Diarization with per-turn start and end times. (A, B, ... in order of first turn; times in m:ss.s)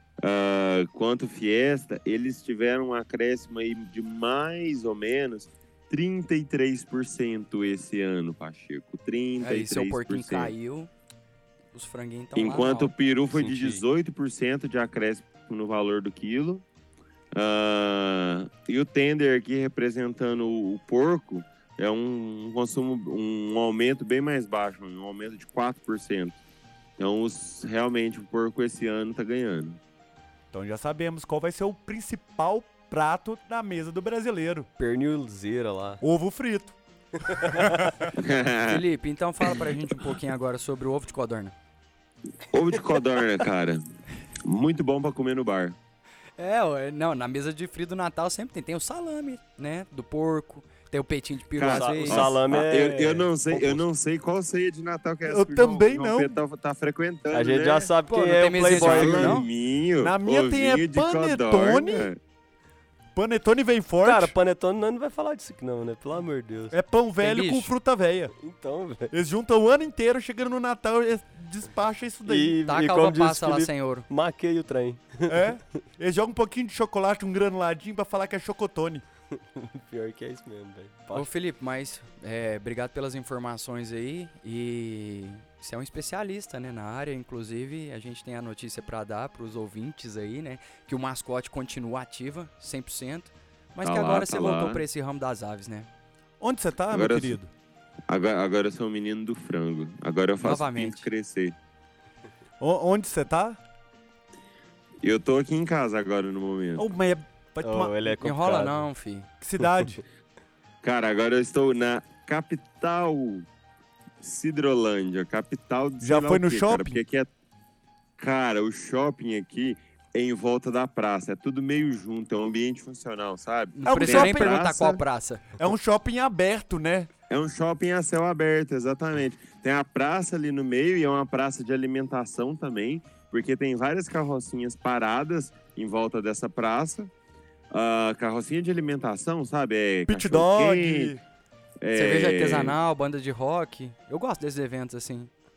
0:00.2-0:10.5 A
0:09.4-0:10.9 B
0:11.7-0:12.9 B
0:12.4-0:16.6 A
0:13.3-0:13.8 C
0:17.3-0:26.4 A
0:27.0-0:29.8 A
0:30.5-0:34.7 D
0:34.8-0:36.0 C
0:36.0-0:36.8 D
0:37.2-0:37.9 C
0:37.3-0:38.1 D
0:38.1-0:38.8 A
0:38.6-0:41.5 B
0:42.5-0:43.8 A
0:44.4-0:45.8 A
0:46.4-0:52.3 B
0:51.5-0:57.9 A
0:51.7-0:53.8 C
0:55.2-0:56.4 D
0:57.3-0:59.4 C
0:58.1-0:59.5 B
0:58.7-1:02.2 A
1:00.0-1:02.1 D
1:03.1-1:04.3 D
1:04.0-1:06.8 C
1:06.7-1:08.3 D
1:07.2-1:07.7 B
1:08.4-1:09.1 C
1:09.1-1:12.6 D
1:12.2-1:15.5 C
1:12.6-1:14.1 B
1:15.3-1:19.0 D
1:19.5-1:21.3 C
1:21.1-1:35.9 B
1:33.8-1:34.8 A
1:36.4-1:37.5 D
1:36.9-1:37.4 A
1:38.1-1:41.5 A
1:40.4-1:41.1 B
1:42.6-1:43.6 D
1:45.0-1:46.9 A
1:46.8-1:48.1 D
1:47.6-1:48.9 C
1:48.2-1:49.3 B
1:49.4-1:50.0 D
1:50.8-1:53.5 A
1:54.2-1:57.3 A
1:56.0-1:57.0 D
1:58.2-2:05.0 A
2:03.7-2:05.4 B
2:03.8-2:04.6 D
2:05.6-2:07.1 D
2:07.3-2:17.1 A
2:17.7-2:21.2 A
2:20.1-2:21.2 D
2:21.8-2:22.8 A
2:21.9-2:25.3 B